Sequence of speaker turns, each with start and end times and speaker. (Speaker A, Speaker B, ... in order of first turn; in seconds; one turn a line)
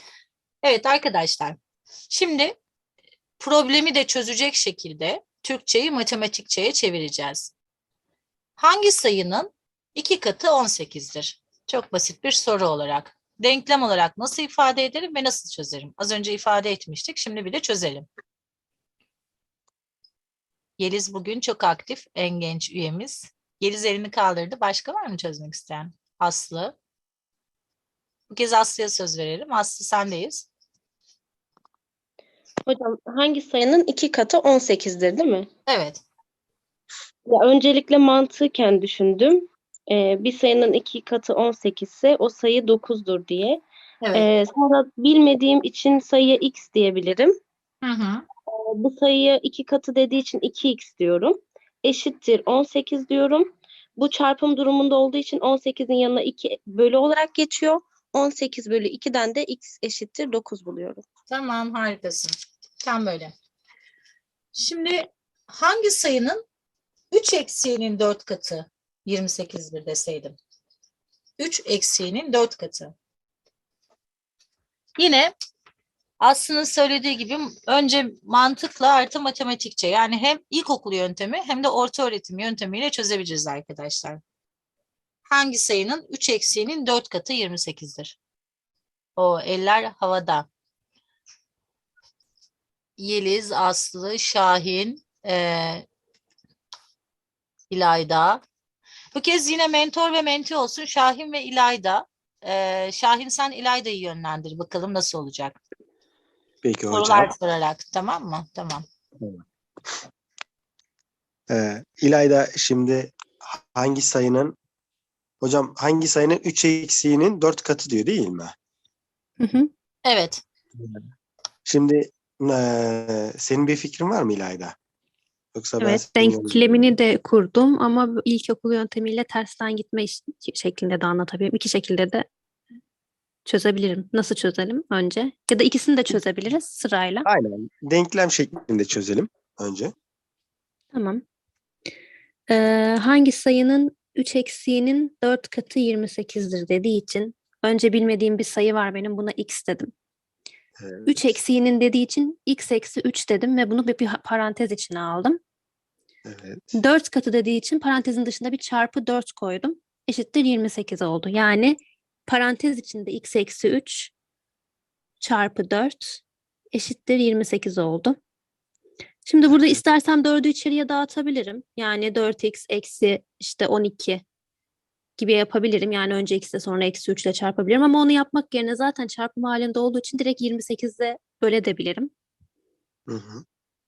Speaker A: 0.6-1.6
Speaker A: 2.1-2.5
Speaker A: 3.4-7.5
Speaker A: 8.6-18.1
Speaker A: 20.8-26.7
Speaker A: 28.3-30.5
Speaker B: 32.7-35.5
Speaker A: 35.7-36.0
Speaker B: 37.3-43.6
Speaker A: 44.0-44.3
Speaker B: 44.1-47.3
Speaker A: 47.8-48.2
Speaker B: 48.5-53.5
Speaker B: 54.0-61.0
Speaker A: 61.3-63.3
Speaker A: 64.5-66.4
Speaker A: 67.1-70.4
Speaker A: 71.4-72.9
Speaker A: 75.0-75.3
Speaker A: 76.2-84.2
Speaker A: 85.3-88.2
Speaker A: 89.2-90.5
Speaker A: 93.0-95.8
Speaker A: 97.7-98.4
Speaker A: 99.1-105.6
Speaker C: 106.6-107.3
Speaker A: 106.9-108.8
Speaker C: 111.5-114.5
Speaker C: 115.4-118.5
Speaker D: 119.4-119.7
Speaker A: 120.0-120.4
Speaker C: 121.6-124.7
Speaker C: 125.5-126.7
Speaker D: 125.8-132.3
Speaker D: 133.4-137.3
Speaker C: 137.2-139.9
Speaker D: 140.9-141.2
Speaker D: 142.5-149.9
Speaker C: 150.8-151.3
Speaker D: 151.1-155.4
Speaker C: 156.2-156.7
Speaker D: 156.7-164.1
Speaker D: 165.2-166.2
Speaker D: 166.7-168.2
Speaker D: 169.2-174.2
Speaker C: 169.5-169.8
Speaker D: 175.2-182.1
Speaker C: 183.1-183.4